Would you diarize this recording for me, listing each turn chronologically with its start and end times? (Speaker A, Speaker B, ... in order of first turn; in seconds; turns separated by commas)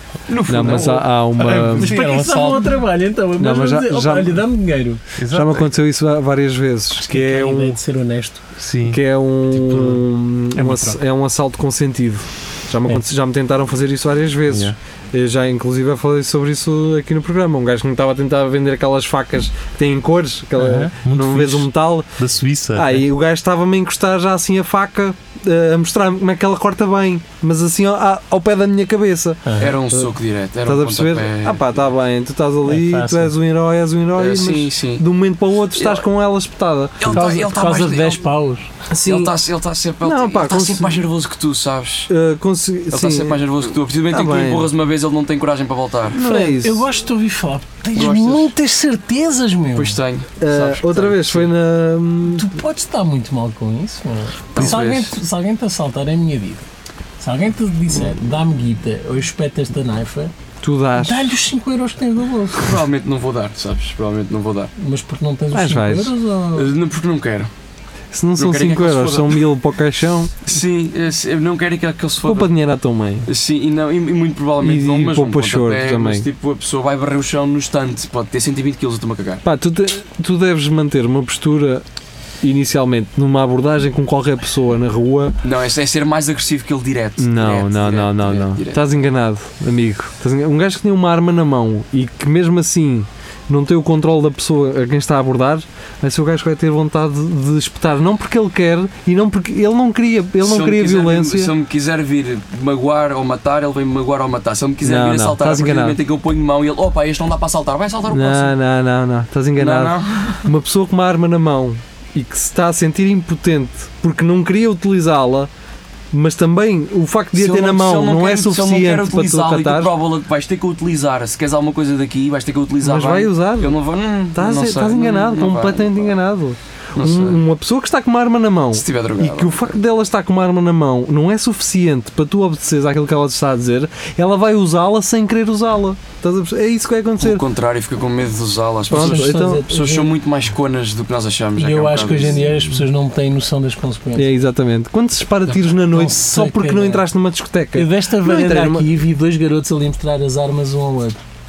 Speaker A: 0.3-1.1, Speaker B: 0.5-1.9, Speaker C: 1.4-2.0, Speaker D: 1.8-5.0, Speaker A: 1.8-2.6, Speaker B: 3.4-4.4, Speaker C: 5.2-5.7, Speaker B: 5.3-7.8, Speaker D: 7.0-8.4, Speaker C: 8.6-9.0, Speaker B: 8.8-22.2, Speaker C: 9.6-10.0, Speaker D: 10.5-11.0, Speaker C: 14.5-14.8, Speaker D: 20.6-20.9, Speaker C: 21.0-23.1, Speaker B: 22.8-30.1, Speaker D: 29.4-29.8, Speaker A: 29.6-31.7, Speaker B: 30.6-37.4, Speaker D: 32.6-33.3, Speaker A: 34.1-35.0, Speaker A: 35.8-36.0, Speaker A: 37.0-38.2, Speaker D: 37.1-38.8, Speaker B: 38.9-39.4, Speaker A: 39.0-42.1, Speaker B: 40.0-41.0, Speaker B: 42.1-43.4, Speaker A: 42.9-46.2, Speaker B: 44.1-44.7, Speaker B: 46.1-46.9, Speaker D: 46.2-50.0, Speaker A: 48.0-48.5, Speaker A: 49.7-51.5, Speaker B: 50.4-52.5, Speaker D: 52.3-56.7, Speaker A: 54.5-55.1, Speaker D: 57.2-60.3, Speaker B: 60.6-61.4, Speaker D: 61.0-62.8, Speaker A: 62.6-64.7, Speaker D: 64.8-66.7, Speaker B: 65.5-66.2, Speaker A: 66.5-67.5, Speaker B: 68.1-70.4, Speaker A: 68.4-69.5, Speaker A: 70.5-72.5, Speaker B: 72.2-73.3, Speaker A: 73.3-79.4, Speaker B: 74.6-76.3, Speaker B: 79.4-81.8, Speaker B: 82.4-85.4, Speaker A: 85.4-88.9, Speaker B: 87.2-101.5, Speaker A: 100.4-108.5, Speaker B: 104.8-106.0, Speaker B: 108.1-115.5, Speaker A: 109.6-110.5, Speaker B: 116.1-120.0, Speaker A: 117.4-126.2, Speaker B: 122.8-123.8, Speaker B: 124.3-137.4, Speaker A: 127.0-127.4, Speaker A: 128.7-129.7, Speaker A: 137.2-142.6, Speaker B: 138.9-139.7, Speaker D: 138.9-140.1, Speaker D: 141.6-144.3, Speaker B: 144.2-148.9, Speaker D: 145.9-147.0, Speaker D: 147.7-151.2